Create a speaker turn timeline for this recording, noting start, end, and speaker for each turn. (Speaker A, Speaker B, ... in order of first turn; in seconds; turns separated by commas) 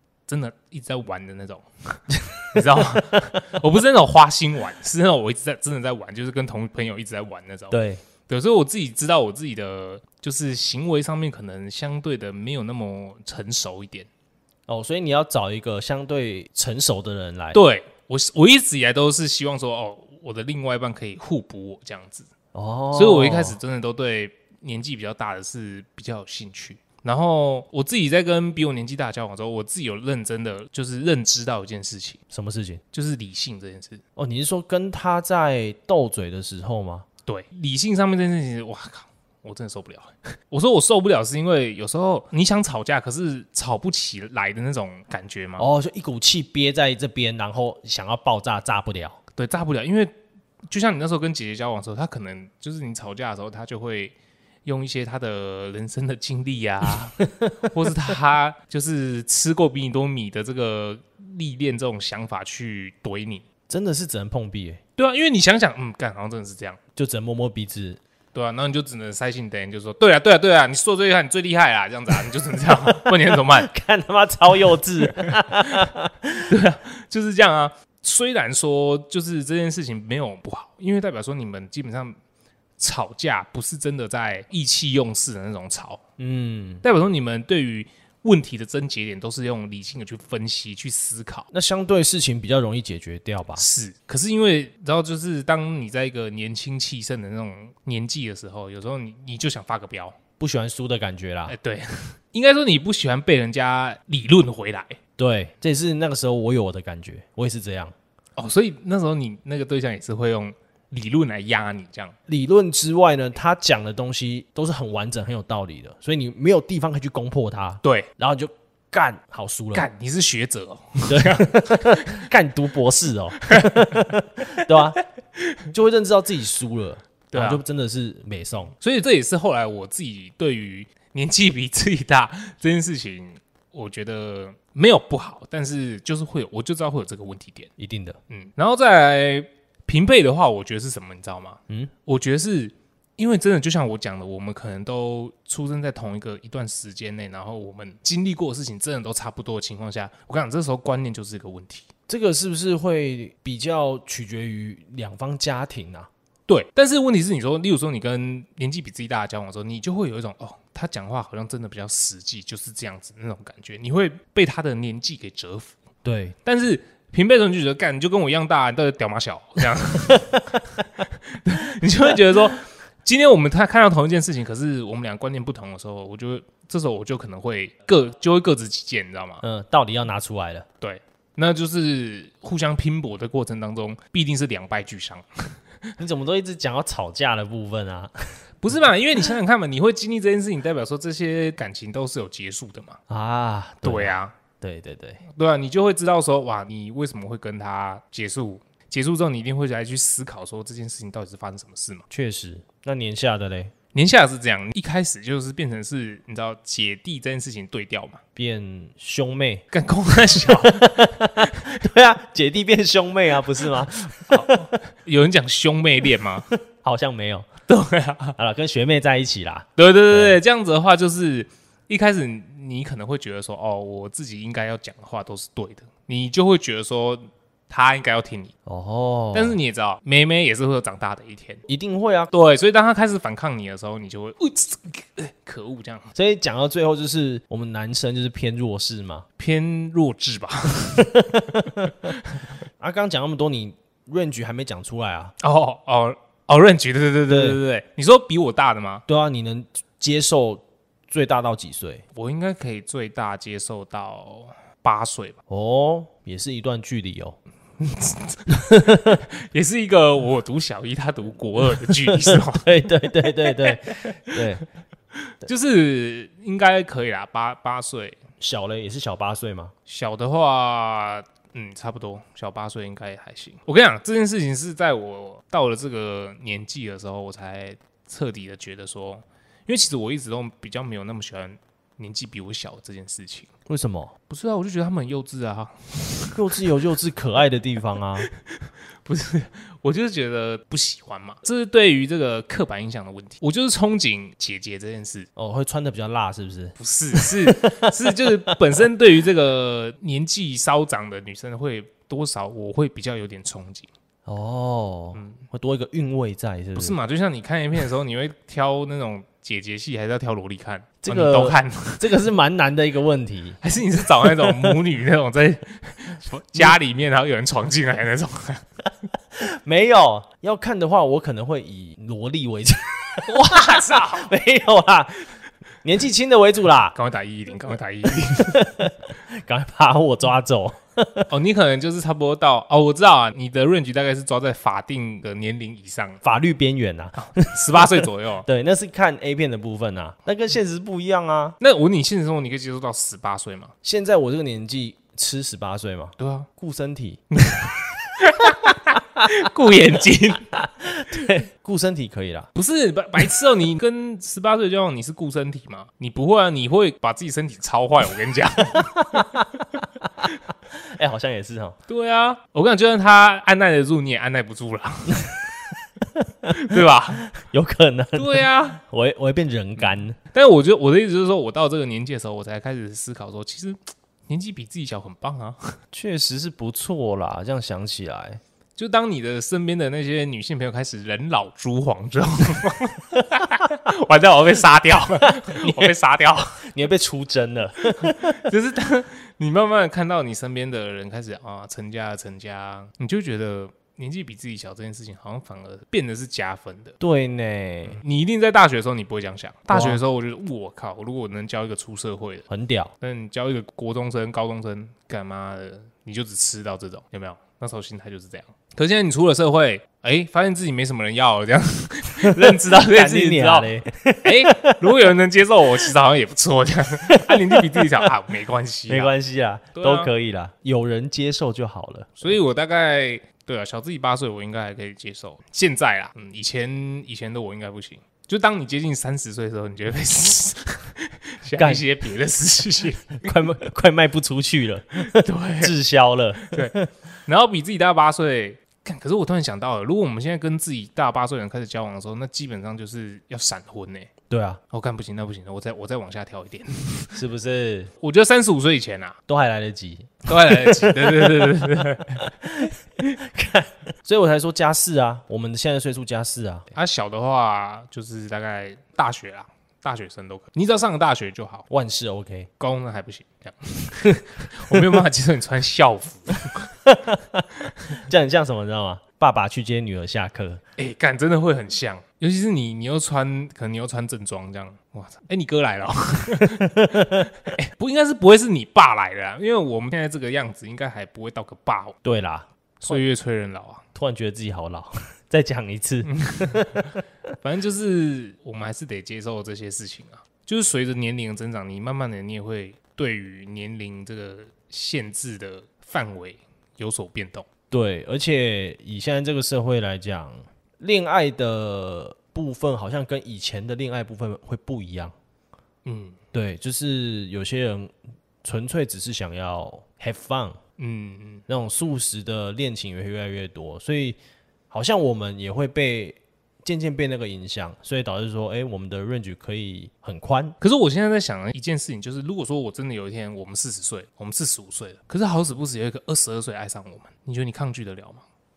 Speaker A: 0.3-14.1, Speaker B: 7.7-8.0, Speaker B: 14.7-17.6, Speaker A: 17.5-22.3, Speaker B: 22.5-23.6, Speaker A: 22.9-32.2, Speaker B: 32.3-32.8, Speaker A: 32.9-34.0, Speaker B: 34.1-37.0, Speaker A: 37.2-45.7, Speaker B: 45.6-49.2, Speaker A: 49.4-50.1, Speaker A: 50.7-63.4, Speaker B: 57.2-57.5, Speaker B: 63.7-64.8, Speaker A: 65.0-66.8, Speaker B: 67.0-68.0, Speaker A: 68.3-73.7, Speaker B: 72.7-76.5, Speaker A: 75.0-75.9, Speaker A: 76.5-82.2, Speaker A: 82.8-86.0, Speaker B: 86.2-86.8, Speaker A: 86.8-91.5, Speaker B: 91.5-93.6, Speaker A: 93.5-100.2, Speaker B: 100.4-101.5, Speaker A: 101.5-105.0, Speaker B: 105.2-107.9, Speaker A: 108.4-112.1, Speaker B: 112.3-119.9, Speaker A: 117.8-118.1, Speaker A: 119.7-122.2, Speaker B: 121.1-125.0, Speaker A: 123.5-123.9, Speaker A: 124.5-124.8, Speaker A: 125.4-125.7, Speaker B: 125.7-128.7, Speaker A: 127.3-127.6, Speaker A: 128.8-137.7, Speaker B: 137.8-138.2, Speaker A: 138.3-151.9, Speaker B: 152.1-156.1, Speaker A: 156.5-165.8, Speaker B: 166.0-166.3, Speaker A: 166.4-179.4, Speaker B: 179.4-180.7, Speaker A: 180.8-185.9, Speaker B: 186.0-188.4, Speaker A: 188.6-193.0, Speaker B: 193.1-195.2, Speaker A: 193.8-194.3, Speaker A: 195.3-202.1, Speaker B: 202.1-203.7, Speaker A: 203.9-208.2, Speaker B: 208.3-209.6, Speaker A: 209.7-211.7, Speaker B: 210.2-214.7, Speaker A: 214.3-216.5, Speaker B: 216.6-217.5, Speaker A: 217.7-218.4, Speaker B: 218.4-220.4, Speaker A: 219.8-228.5, Speaker B: 228.7-229.6, Speaker A: 229.3-231.6, Speaker B: 231.7-232.3, Speaker A: 232.3-236.1, Speaker B: 236.1-239.2, Speaker A: 239.4-242.5, Speaker B: 241.0-242.1, Speaker B: 242.8-245.3, Speaker A: 245.4-249.0, Speaker B: 247.3-247.6, Speaker B: 249.1-252.0, Speaker A: 252.1-255.4, Speaker B: 255.5-257.4, Speaker A: 257.8-264.4, Speaker B: 258.5-259.2, Speaker B: 261.9-264.6, Speaker A: 265.2-268.2, Speaker B: 268.4-269.7, Speaker A: 269.9-283.5, Speaker B: 283.7-284.1, Speaker A: 284.3-286.6, Speaker B: 286.3-288.3, Speaker A: 288.6-295.3, Speaker B: 295.4-298.5, Speaker A: 296.8-303.9, Speaker B: 304.2-307.0, Speaker A: 305.1-305.4, Speaker A: 306.8-312.1, Speaker B: 311.0-313.6, Speaker A: 313.6-318.6, Speaker B: 314.2-314.7, Speaker B: 319.3-325.3, Speaker A: 323.2-324.3, Speaker B: 325.8-326.9, Speaker A: 326.9-328.7, Speaker B: 328.2-331.3, Speaker A: 331.3-336.2, Speaker B: 336.2-341.6, Speaker A: 337.2-338.4, Speaker A: 341.6-343.7, Speaker B: 343.8-347.2, Speaker A: 346.2-346.5, Speaker A: 347.3-350.5, Speaker B: 350.5-352.5, Speaker A: 352.5-359.4, Speaker B: 359.1-359.6, Speaker B: 360.7-361.8, Speaker A: 361.9-365.4, Speaker B: 366.1-370.2, Speaker A: 366.5-367.2, Speaker A: 368.1-368.8, Speaker A: 369.8-373.8, Speaker A: 374.3-375.8, Speaker B: 375.9-378.4, Speaker A: 378.8-386.6, Speaker B: 385.4-385.9, Speaker B: 386.6-388.4, Speaker A: 388.0-396.9, Speaker B: 397.0-398.0, Speaker A: 397.8-402.5, Speaker B: 399.7-400.0, Speaker B: 402.5-402.9, Speaker A: 403.0-419.1, Speaker B: 412.2-414.8, Speaker B: 417.1-418.0, Speaker B: 418.9-422.4, Speaker A: 419.7-420.1, Speaker A: 422.2-433.2, Speaker B: 431.6-431.8, Speaker B: 433.2-436.9, Speaker A: 435.0-435.7, Speaker A: 436.4-444.1, Speaker B: 444.3-444.6, Speaker A: 444.7-447.2, Speaker B: 447.1-447.9, Speaker A: 448.0-449.2, Speaker B: 449.3-456.7, Speaker A: 450.2-452.3, Speaker A: 456.7-461.7, Speaker B: 461.7-462.5, Speaker A: 462.6-466.7, Speaker B: 464.7-465.0, Speaker B: 466.8-470.6, Speaker A: 470.8-482.0, Speaker B: 476.6-477.3, Speaker B: 482.0-483.0, Speaker A: 482.8-483.8, Speaker B: 483.9-486.9, Speaker A: 486.0-497.5, Speaker B: 497.7-505.1, Speaker A: 505.8-506.2, Speaker B: 506.3-507.9, Speaker B: 508.4-510.6, Speaker A: 510.8-511.4, Speaker B: 511.5-514.2, Speaker B: 514.7-520.6, Speaker A: 520.6-528.2